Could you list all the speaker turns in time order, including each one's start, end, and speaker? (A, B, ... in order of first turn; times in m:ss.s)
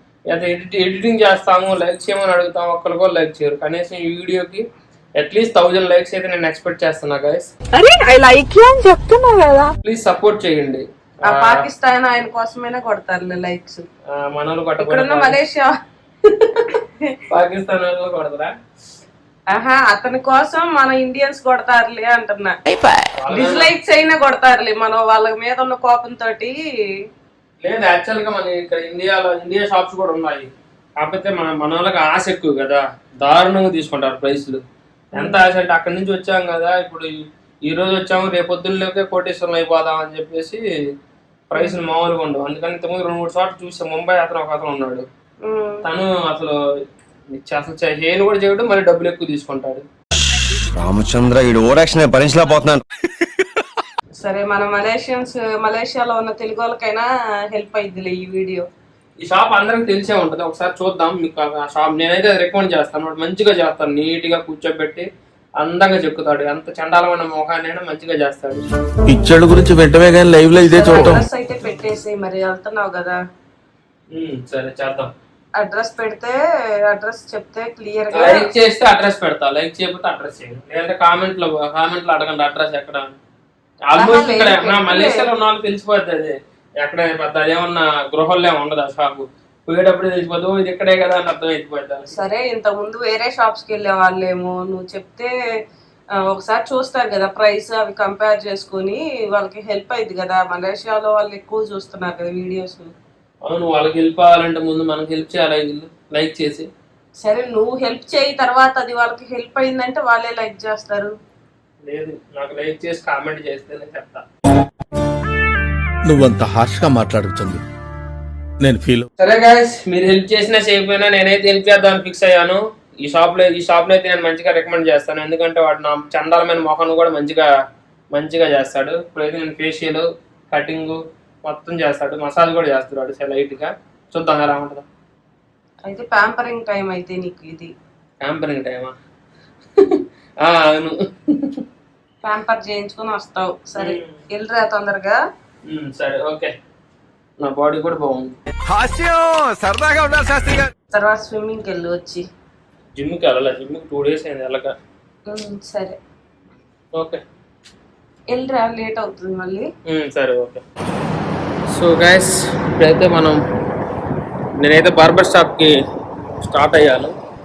0:00.3-0:04.6 A
0:05.2-0:07.5 A
0:07.7-0:09.7 B
0:09.8-0:11.6 A
0:11.2-0:13.8 C
0:14.1-0:15.4 A
0:14.8-0:15.7 C
0:16.6-0:17.1 C
0:17.3-0:18.5 A
0:19.5-0:22.6 C
0:22.7-0:23.0 B
0:23.2-0:23.7 A
0:23.3-0:26.6 C
0:27.6-0:34.6 A
0:35.1-0:37.1 A
0:37.6-0:40.6 A
0:41.5-0:45.0 A
0:45.4-0:45.8 C
0:45.8-0:46.6 A
0:47.3-0:49.8 A
0:50.7-0:52.8 D
0:54.2-0:58.7 C
0:59.2-1:05.1 A
1:05.6-1:08.7 A
1:09.1-1:11.2 E
1:10.6-1:13.2 C
1:14.1-1:15.1 A
1:15.6-1:16.4 C
1:16.9-1:18.5 C
1:18.1-1:23.2 A
1:23.9-1:32.1 A
1:24.0-1:25.2 C
1:32.1-1:35.3 C
1:36.3-1:42.9 C
1:43.4-1:46.7 A
1:47.2-1:51.1 C
1:51.8-1:54.2 A
1:56.1-1:57.6 E
1:58.6-1:59.0 E
1:59.2-2:07.5 A
2:08.1-2:14.8 A
2:15.8-2:17.7 C
2:18.2-2:18.9 A
2:19.8-2:21.6 A
2:22.2-2:25.2 C
2:23.8-2:24.1 A
2:25.7-2:26.5 A
2:27.4-2:28.3 A
2:30.9-2:32.2 C
2:33.0-2:34.7 A
2:35.3-2:36.0 C
2:36.9-2:37.2 A
2:38.3-2:39.7 C
2:39.8-2:40.6 A
2:41.7-2:43.4 A
2:44.6-2:45.7 A
2:46.4-2:47.1 A